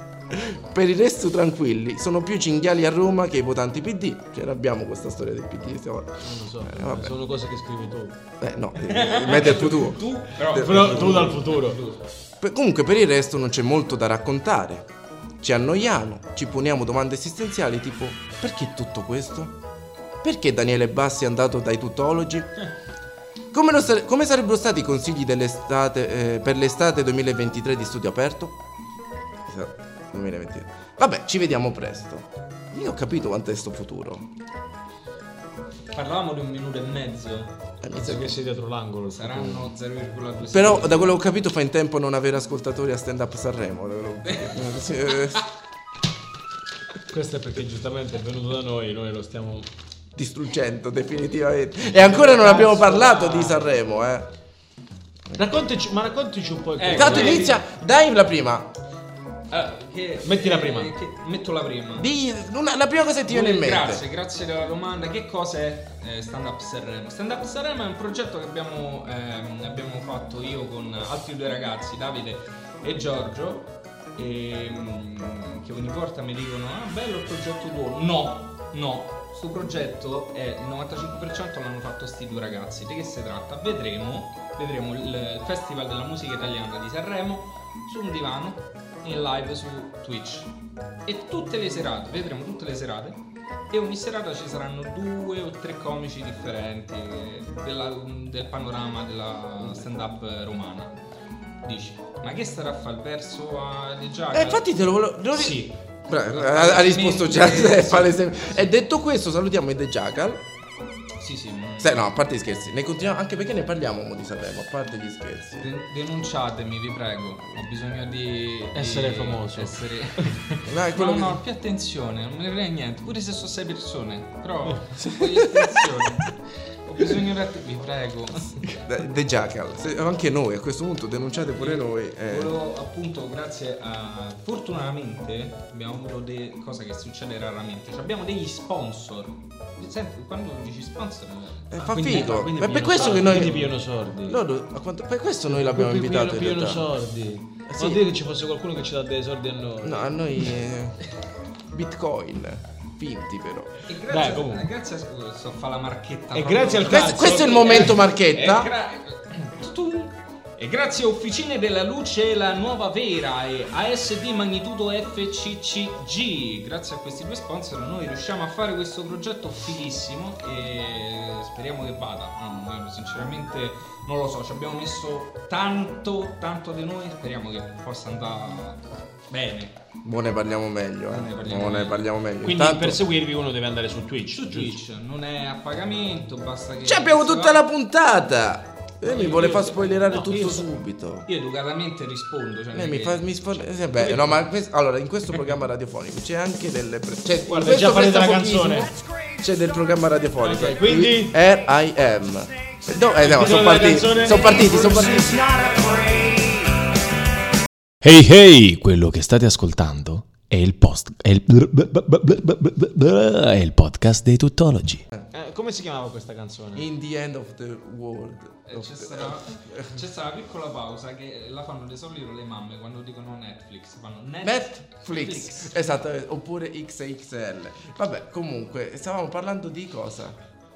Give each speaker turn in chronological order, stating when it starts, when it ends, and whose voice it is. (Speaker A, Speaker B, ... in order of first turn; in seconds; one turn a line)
Speaker A: 0.3-7.2
Speaker B: 6.2-8.2
Speaker A: 8.4-11.4
Speaker C: 8.8-12.0
Speaker B: 10.5-11.8
Speaker A: 12.4-14.9
Speaker A: 15.4-19.5
Speaker A: 20.2-22.5
Speaker A: 23.5-28.6
Speaker A: 29.4-34.3
Speaker C: 35.9-37.5
Speaker A: 37.8-38.4
Speaker B: 37.9-39.7
Speaker C: 39.1-41.2
Speaker A: 40.5-45.4
Speaker C: 44.3-44.6
Speaker B: 47.1-49.7
Speaker A: 50.1-54.3
Speaker B: 51.9-53.8
Speaker B: 55.3-57.5
Speaker C: 56.8-57.6
Speaker A: 56.9-58.7
Speaker C: 59.5-62.1
Speaker B: 60.2-60.9
Speaker A: 62.0-64.0
Speaker C: 63.3-90.5
Speaker C: 91.0-93.2
Speaker C: 93.7-100.9
Speaker C: 101.6-104.6
Speaker A: 104.3-110.4
Speaker C: 105.3-105.6
Speaker C: 106.3-108.6
Speaker C: 111.2-112.1
Speaker A: 111.8-115.7
Speaker C: 115.6-128.8
Speaker B: 118.7-120.3
Speaker A: 120.6-121.4
Speaker A: 128.6-132.5
Speaker C: 131.6-142.1
Speaker A: 141.7-143.7
Speaker B: 141.8-144.4
Speaker C: 142.8-143.6
Speaker A: 144.2-146.9
Speaker B: 145.5-150.5
Speaker A: 147.7-148.0
Speaker A: 149.8-151.0
Speaker A: 151.7-153.7
Speaker C: 153.9-179.7
Speaker B: 154.1-154.7
Speaker B: 156.3-158.0
Speaker A: 156.9-158.7
Speaker A: 180.0-183.0
Speaker C: 181.1-182.1
Speaker B: 182.4-184.8
Speaker C: 184.3-187.6
Speaker A: 186.8-191.3
Speaker C: 189.0-190.3
Speaker B: 190.1-190.7
Speaker C: 191.2-194.3
Speaker A: 192.7-205.6
Speaker B: 197.4-198.9
Speaker B: 200.4-201.4
Speaker B: 203.2-206.7
Speaker C: 204.4-204.8
Speaker D: 208.0-215.0
Speaker B: 215.3-216.9
Speaker A: 216.7-220.0
Speaker C: 218.7-225.9
Speaker A: 224.4-230.4